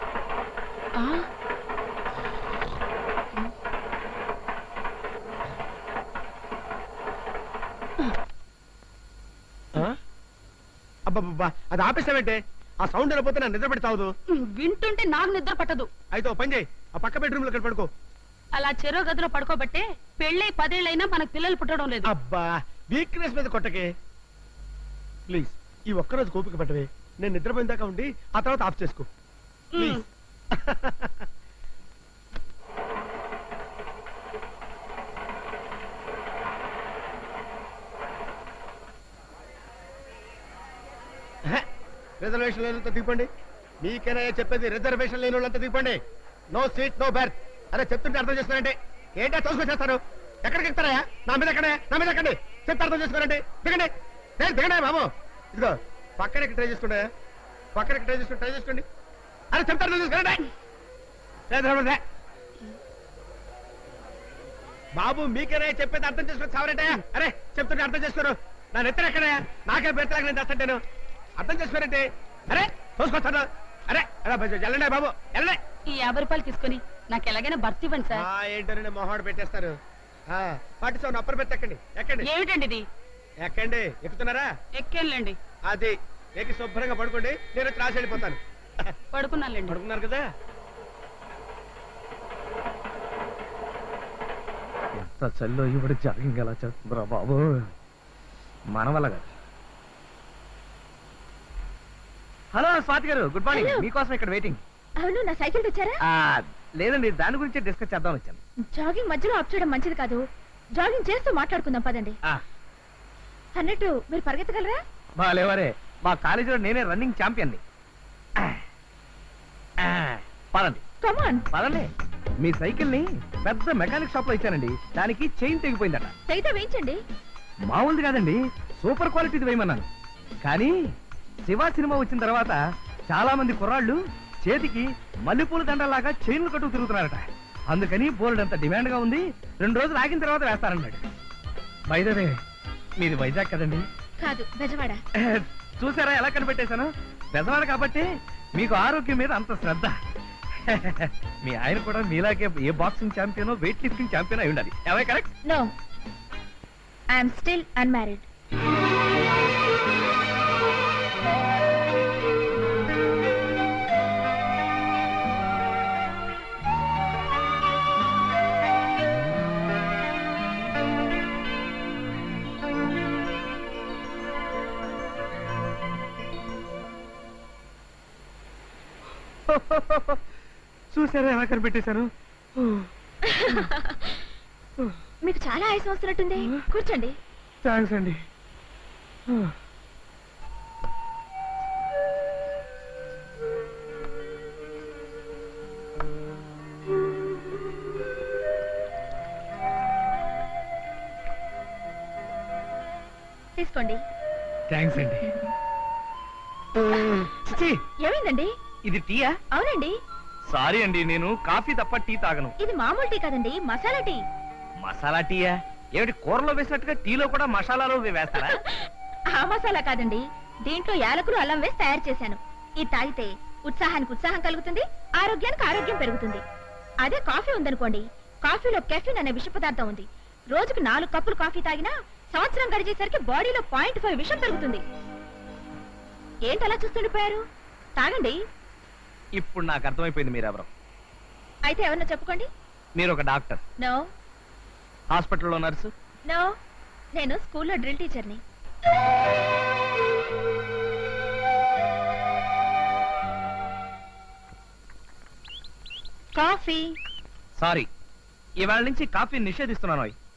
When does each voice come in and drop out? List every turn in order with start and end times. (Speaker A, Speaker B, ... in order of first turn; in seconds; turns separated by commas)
Speaker A: 0.9-1.3, Speaker B: 11.1-14.1, Speaker A: 14.3-15.9, Speaker B: 16.1-17.9, Speaker A: 18.5-22.1, Speaker B: 22.1-23.9, Speaker B: 25.3-29.1, Speaker A: 29.7-30.0, Speaker B: 29.8-31.2, Speaker B: 42.2-43.3, Speaker B: 43.8-46.0, Speaker B: 46.5-57.1, Speaker B: 57.8-58.8, Speaker B: 59.5-60.5, Speaker B: 61.5-62.0, Speaker B: 65.0-70.8, Speaker B: 71.4-75.6, Speaker A: 75.9-78.2, Speaker B: 78.1-79.8, Speaker B: 80.3-82.3, Speaker A: 82.2-82.8, Speaker B: 83.4-84.5, Speaker A: 84.8-85.4, Speaker B: 85.7-88.9, Speaker A: 89.1-89.8, Speaker B: 89.7-90.3, Speaker C: 95.0-97.7, Speaker C: 98.7-99.3, Speaker C: 102.5-104.6, Speaker D: 103.5-103.9, Speaker D: 105.0-106.0, Speaker C: 106.0-108.4, Speaker D: 108.7-110.2, Speaker D: 110.8-112.2, Speaker D: 113.6-114.8, Speaker C: 115.2-117.6, Speaker C: 118.4-118.6, Speaker C: 119.8-120.8, Speaker D: 121.0-121.5, Speaker C: 121.5-121.9, Speaker C: 122.4-126.1, Speaker D: 126.3-127.0, Speaker C: 127.7-129.9, Speaker C: 130.4-130.7, Speaker C: 131.4-141.0, Speaker C: 141.9-142.4, Speaker C: 143.0-143.8, Speaker D: 144.2-145.0, Speaker C: 145.2-149.9, Speaker C: 150.7-155.3, Speaker D: 157.1-158.3, Speaker C: 179.5-180.2, Speaker C: 180.9-182.9, Speaker D: 183.3-184.2, Speaker C: 183.4-183.7, Speaker D: 185.2-187.1, Speaker C: 187.6-188.2, Speaker D: 203.6-204.0, Speaker C: 204.7-205.3, Speaker D: 204.9-205.5, Speaker C: 207.2-207.8, Speaker D: 208.0-208.5, Speaker C: 208.8-209.4, Speaker D: 209.5-209.9, Speaker C: 210.5-212.5, Speaker D: 212.6-214.2, Speaker C: 214.8-218.6, Speaker D: 218.4-226.4, Speaker D: 227.0-234.8, Speaker D: 236.5-237.4, Speaker D: 238.0-238.4, Speaker C: 239.4-240.7, Speaker D: 241.7-242.5, Speaker C: 242.9-243.6, Speaker D: 243.8-244.1, Speaker C: 245.1-245.9, Speaker D: 247.2-248.4, Speaker D: 256.4-256.9, Speaker C: 257.6-257.9, Speaker C: 258.6-260.1